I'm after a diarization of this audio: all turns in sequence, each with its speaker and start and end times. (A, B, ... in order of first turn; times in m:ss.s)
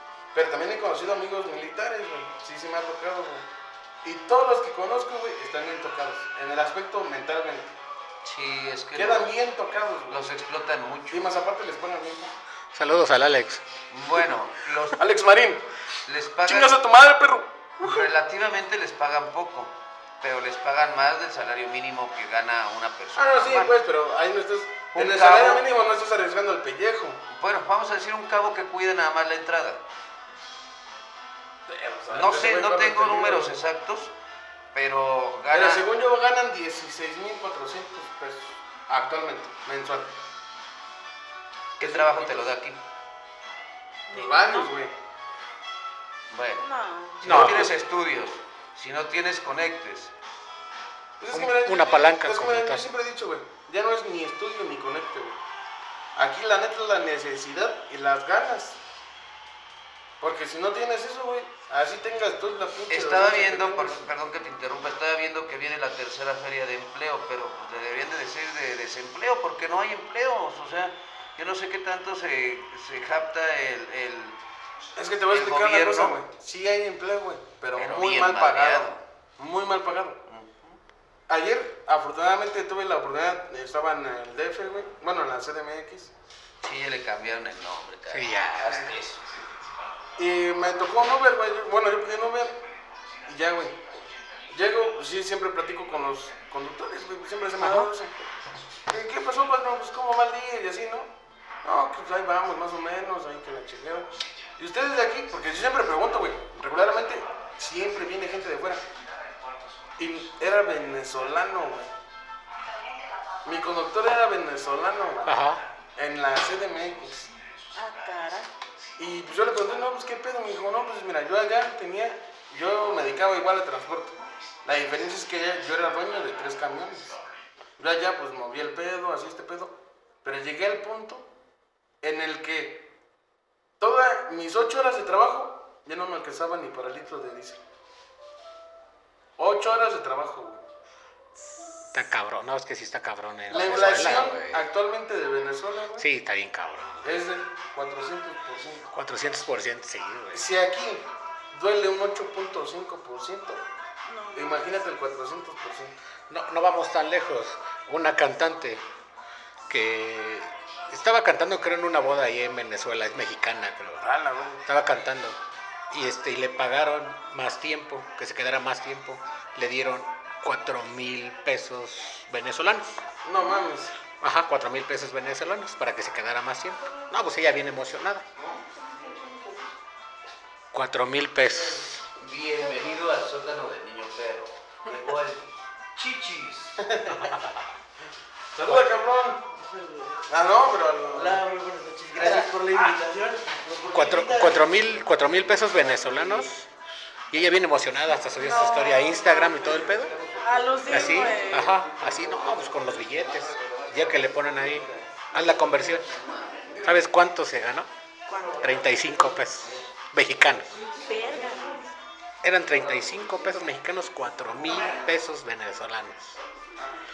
0:00.3-0:03.4 A
0:04.0-0:07.7 A
0:08.2-0:09.3 B
0:09.0-0:10.4 A
0:10.1-0:11.3 B
0:11.1-0:12.3 A
0:12.7-0:13.6 C
0:13.9-0:15.0 B
0:15.0-0:15.6 A
0:16.1-0:16.7 B
0:16.5-0:18.1 A
0:17.8-0:23.8 B
0:23.2-0:27.2 A
0:24.9-0:25.6 B
0:27.3-0:29.8 B
0:31.7-0:33.5 A
0:32.1-0:34.1 B
0:34.7-0:35.8 B
0:35.5-0:40.1 A
0:41.8-0:42.5 A
0:41.8-0:42.8 B
0:44.1-0:44.7 D
0:44.1-0:44.9 A
0:46.3-0:46.6 B
0:46.6-0:47.4 D
0:47.2-0:50.1 B
0:47.2-0:47.7 C
0:51.2-0:55.4 A
0:51.3-0:52.9 C
0:56.2-0:58.8 A
1:00.2-1:04.0 A
1:02.9-1:14.4 B
1:15.0-1:20.2 A
1:15.3-1:16.2 B
1:17.8-1:19.0 B
1:20.3-1:20.8 B
1:21.3-1:26.1 A
1:26.6-1:29.4 B
1:28.1-1:28.9 C
1:30.2-1:32.6 A
1:33.3-1:33.8 A
1:34.5-1:38.1 A
1:37.6-1:37.9 C
1:38.9-1:41.1 A
1:41.6-1:48.8 A
1:50.0-1:51.9 A
1:53.4-1:55.3 A
1:55.2-1:55.6 C
1:56.0-1:57.3 A
1:57.8-1:58.5 D
1:59.0-2:07.2 A
2:07.8-2:11.3 A
2:12.0-2:12.9 A
2:13.8-2:17.6 A
2:19.4-2:20.6 A
2:21.9-2:24.6 C
2:23.5-2:26.1 A
2:26.0-2:27.2 C
2:27.0-2:28.9 A
2:28.9-2:30.4 C
2:30.3-2:33.6 A
2:34.1-2:34.8 D
2:34.4-2:35.9 A
2:36.3-2:38.8 C
2:39.7-2:44.0 C
2:44.0-2:44.6 A
2:44.6-2:45.4 C
2:45.9-2:53.0 C
2:53.2-2:53.9 A
2:54.1-2:58.3 C
2:58.4-2:58.6 B
3:00.7-3:02.0 C
3:02.2-3:06.8 B
3:06.8-3:07.3 A
3:07.1-3:07.6 C
3:08.6-3:09.4 A
3:09.5-3:10.2 E
3:10.3-3:11.4 A
3:11.1-3:14.7 E
3:13.9-3:16.6 C
3:17.3-3:20.2 C
3:18.4-3:19.6 D
3:20.4-3:21.8 D
3:20.9-3:26.1 C
3:21.8-3:22.5 B
3:23.6-3:24.6 B
3:26.0-3:26.9 B
3:26.8-3:27.9 C
3:28.3-3:28.7 D
3:28.5-3:30.7 C
3:31.0-3:31.8 D
3:32.4-3:36.4 C